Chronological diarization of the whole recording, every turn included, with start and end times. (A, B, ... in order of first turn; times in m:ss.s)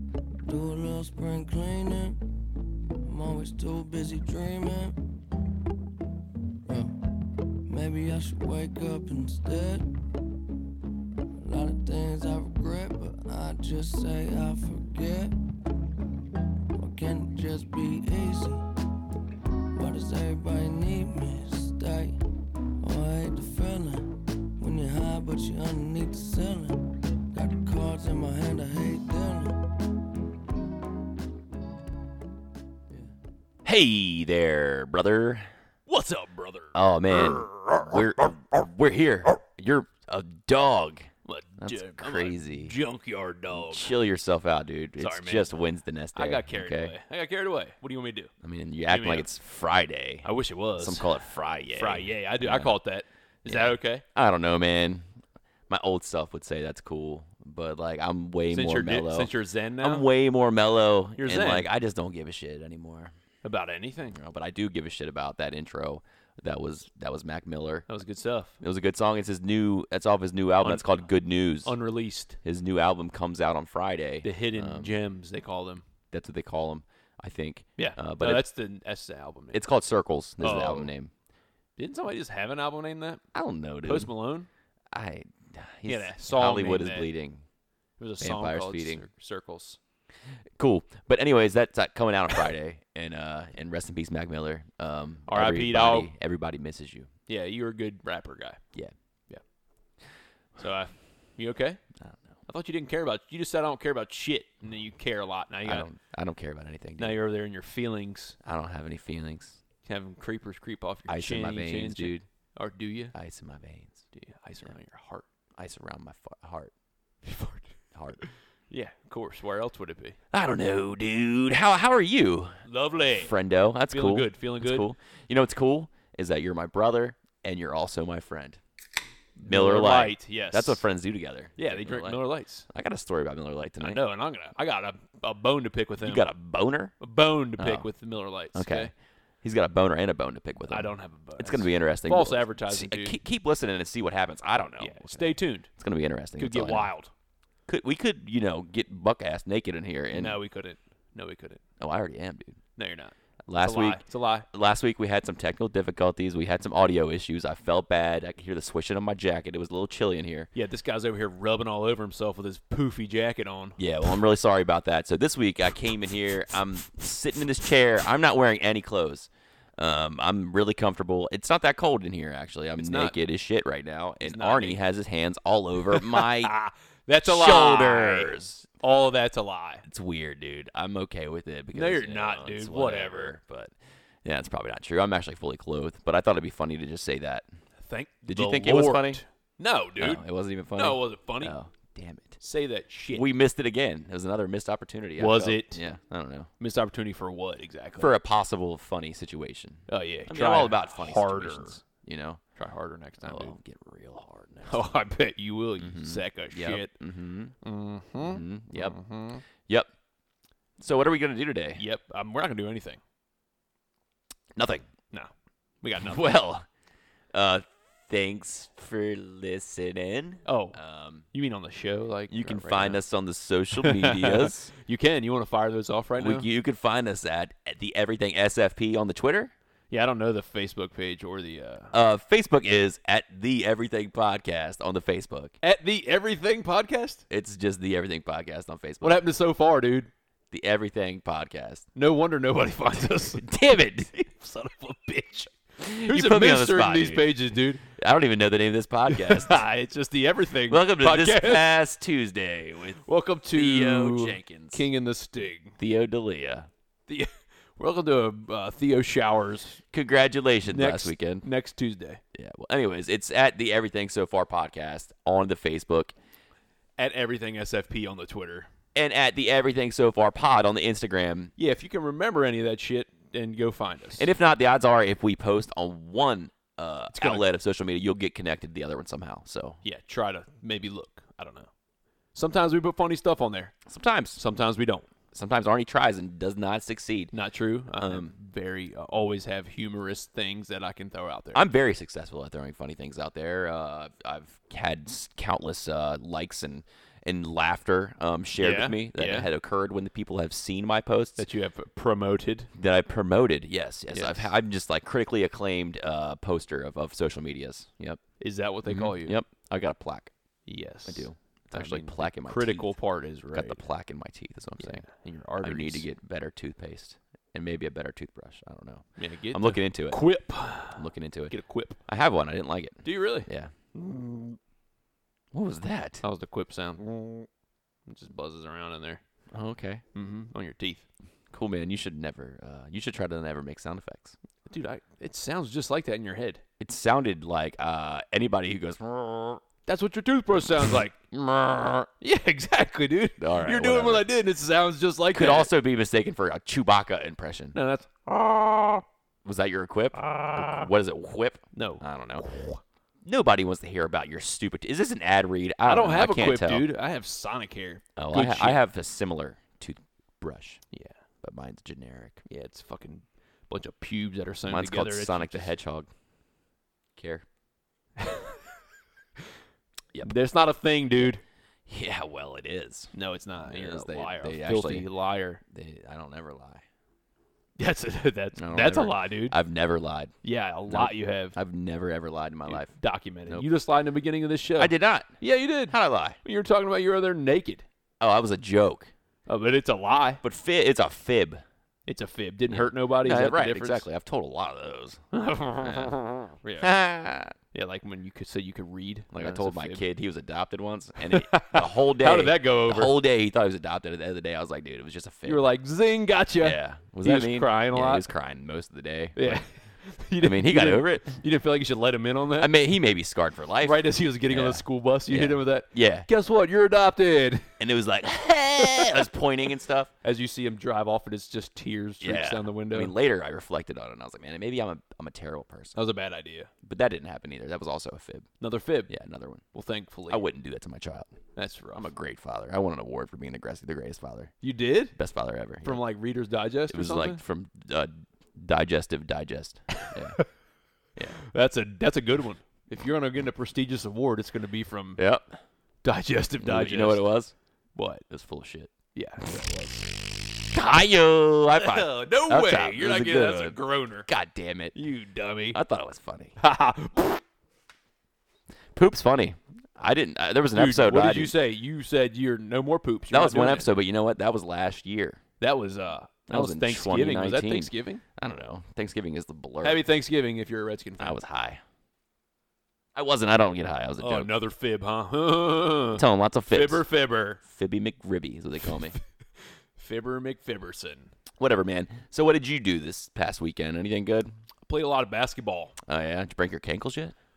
0:00.4-0:02.4 A
0:03.0-0:05.0 A
0:06.6-0:09.9 A
0:11.4-0:15.4 A
0:16.7-0:18.6 A
0:19.7-0:22.2 A
0:22.8-0:29.7 A
0:33.6-0:35.5 B
0:35.9-0:38.3 C
0:36.7-0:42.8 B
0:41.2-0:44.0 C
0:43.5-0:46.9 B
0:45.0-0:45.5 C
0:46.1-0:48.3 C
0:48.4-0:52.7 B
0:48.9-0:49.3 C
0:50.2-0:51.1 C
0:51.7-0:54.0 C
0:53.4-0:55.0 B
0:55.7-1:03.1 B
0:58.5-1:00.1 C
1:01.2-1:01.7 C
1:03.4-1:04.2 C
1:04.1-1:07.8 B
1:07.9-1:08.6 C
1:08.6-1:11.7 B
1:10.6-1:10.9 C
1:11.6-1:12.4 C
1:12.4-1:15.0 B
1:14.2-1:15.8 C
1:16.1-1:18.4 B
1:17.8-1:19.6 C
1:19.5-1:21.1 B
1:20.4-1:20.9 C
1:21.8-1:23.2 C
1:23.3-1:24.1 B
1:23.8-1:24.5 C
1:24.9-1:27.4 B
1:25.8-1:27.1 C
1:28.0-1:29.8 C
1:28.2-1:29.0 B
1:30.6-1:37.1 B
1:35.3-1:36.1 C
1:37.3-1:38.6 C
1:40.6-1:41.8 C
1:42.0-1:42.4 B
1:42.5-1:45.9 C
1:45.6-1:47.2 B
1:47.0-1:48.3 C
1:48.4-1:49.6 B
1:49.8-1:53.1 C
1:51.1-1:52.2 B
1:53.1-1:54.0 B
1:54.1-1:55.2 C
1:55.6-1:56.7 B
1:57.2-1:57.7 C
1:57.9-1:58.2 B
1:58.2-2:00.2 C
2:00.3-2:02.6 B
2:02.6-2:03.4 C
2:03.1-2:08.6 B
2:03.9-2:04.9 C
2:09.4-2:10.8 C
2:09.4-2:14.0 B
2:11.6-2:12.7 C
2:13.8-2:16.3 C
2:16.0-2:16.9 B
2:17.0-2:18.9 C
2:17.6-2:17.9 B
2:18.5-2:26.9 B
2:20.7-2:23.2 C
2:24.8-2:25.7 C
2:26.4-2:27.1 C
2:27.7-2:30.4 B
2:30.1-2:31.6 C
2:31.8-2:32.6 B
2:32.8-2:34.4 C
2:33.5-2:40.5 B
2:40.5-2:43.8 C
2:43.8-2:56.5 B
2:52.8-2:53.1 C
2:54.2-2:54.8 C
2:55.9-2:59.8 C
2:57.2-2:58.7 B
2:59.8-3:07.4 B
3:01.7-3:03.3 C
3:07.8-3:10.2 C
3:08.2-3:09.2 B
3:10.0-3:12.4 B
3:10.7-3:11.5 C
3:12.4-3:13.3 C
3:13.1-3:16.5 B
3:15.2-3:15.8 C
3:16.6-3:18.1 C
3:18.0-3:22.4 B
3:19.9-3:21.8 C
3:22.6-3:23.6 C
3:23.2-3:24.8 B
3:24.6-3:26.9 C
3:25.8-3:27.5 B
3:27.6-3:29.4 C
3:28.2-3:29.0 B
3:29.6-3:29.9 B
3:30.8-3:31.8 B
3:31.8-3:33.0 C
3:34.5-3:34.8 B
3:35.8-3:36.2 C
3:36.0-3:36.6 B
3:37.3-3:41.2 B
3:40.4-3:40.8 C
3:41.3-3:43.0 C
3:42.3-3:44.7 B
3:43.8-3:46.4 C
3:46.2-3:49.5 B
3:49.9-3:51.9 C
3:51.9-3:55.5 B
3:55.6-3:57.2 C
3:57.3-3:59.2 B
3:59.0-4:00.1 C
4:00.5-4:01.8 B
4:01.9-4:07.8 C
4:03.4-4:04.1 B
4:05.8-4:09.6 B
4:09.1-4:11.7 C
4:10.7-4:14.8 B
4:13.0-4:15.8 C
4:15.8-4:16.7 B
4:17.1-4:19.8 C
4:19.9-4:21.4 B
4:20.7-4:22.2 C
4:22.3-4:26.1 B
4:27.0-4:28.7 C
4:28.9-4:31.5 B
4:31.6-4:34.3 C
4:34.2-4:39.8 B
4:37.1-4:37.4 C
4:39.8-4:41.7 C
4:42.3-4:43.7 C
4:43.8-4:44.4 B
4:44.4-4:45.1 C
4:45.3-4:47.3 B
4:47.3-4:51.6 C
4:48.0-4:48.3 B
4:51.5-5:01.4 B
4:58.6-4:59.5 C
5:01.4-5:02.7 C
5:02.8-5:08.2 B
5:04.1-5:04.5 C
5:08.4-5:09.4 C
5:08.8-5:10.3 B
5:10.7-5:13.9 C
5:11.0-5:13.0 B
5:13.5-5:15.1 B
5:14.8-5:16.0 C
5:15.6-5:20.2 B
5:19.2-5:22.0 C
5:20.9-5:23.7 B
5:23.0-5:24.6 C
5:25.5-5:26.2 B
5:26.2-5:27.5 C
5:28.1-5:29.2 C
5:29.5-5:30.0 B
5:30.1-5:31.0 C
5:31.5-5:34.3 B
5:34.6-5:36.6 C
5:36.8-5:39.6 B
5:39.8-5:41.2 C
5:40.8-5:42.1 B
5:42.2-5:45.7 C
5:43.4-5:44.3 B
5:45.3-5:47.8 B
5:47.7-5:49.0 C
5:49.4-5:52.4 B
5:50.2-5:50.9 C
5:51.7-5:52.8 C
5:53.2-5:56.9 B
5:55.8-5:58.8 C
5:58.2-6:00.8 B
6:01.4-6:02.4 B
6:02.4-6:05.7 C
6:04.6-6:06.1 B
6:07.2-6:07.4 B
6:08.2-6:08.5 C
6:10.2-6:11.4 C
6:11.9-6:15.1 B
6:13.1-6:15.6 C
6:15.7-6:16.8 B
6:17.8-6:19.6 C
6:18.6-6:20.3 B
6:20.4-6:21.6 C
6:20.9-6:22.9 B
6:22.7-6:27.8 C
6:24.8-6:26.4 B
6:28.2-6:29.1 B
6:29.5-6:30.4 C
6:30.4-6:31.6 B
6:32.1-6:34.0 C
6:32.7-6:35.2 B
6:35.3-6:36.9 C
6:35.8-6:36.2 B
6:36.8-6:37.5 B
6:37.7-6:40.0 C
6:39.3-6:45.7 B
6:41.2-6:43.1 C
6:45.4-6:48.3 C
6:46.6-6:49.7 B
6:49.4-6:52.7 C
6:50.4-6:51.4 B
6:52.6-6:56.3 B
6:53.8-6:57.8 C
6:57.8-7:00.1 B
6:58.8-6:59.1 C
7:00.2-7:03.1 C
7:02.2-7:06.0 B
7:05.9-7:06.7 C
7:06.8-7:08.5 B
7:08.6-7:09.1 C
7:09.1-7:09.6 B
7:09.7-7:10.4 C
7:10.3-7:11.3 B
7:11.6-7:12.1 C
7:11.9-7:14.5 B
7:14.6-7:15.2 C
7:15.1-7:16.0 B
7:15.8-7:17.4 C
7:16.9-7:20.4 B
7:20.0-7:20.4 C
7:21.4-7:25.2 C
7:25.2-7:25.5 B
7:26.0-7:27.3 C
7:26.6-7:27.5 B
7:27.9-7:28.2 C
7:28.3-7:35.0 B
7:29.1-7:30.1 C
7:31.7-7:34.3 C
7:34.9-7:35.8 C
7:35.7-7:36.6 B
7:36.6-7:37.4 C
7:38.9-7:41.5 B
7:40.7-7:43.9 C
7:43.3-7:45.4 B
7:45.6-7:48.2 C
7:46.5-7:50.0 B
7:49.8-7:51.4 C
7:51.2-7:51.8 B
7:53.1-7:54.5 B
7:54.2-7:57.6 C
7:56.1-7:57.0 B
7:57.6-7:59.1 B
8:00.0-8:01.3 C
8:01.6-8:04.5 B
8:04.8-8:05.9 C
8:06.0-8:07.3 B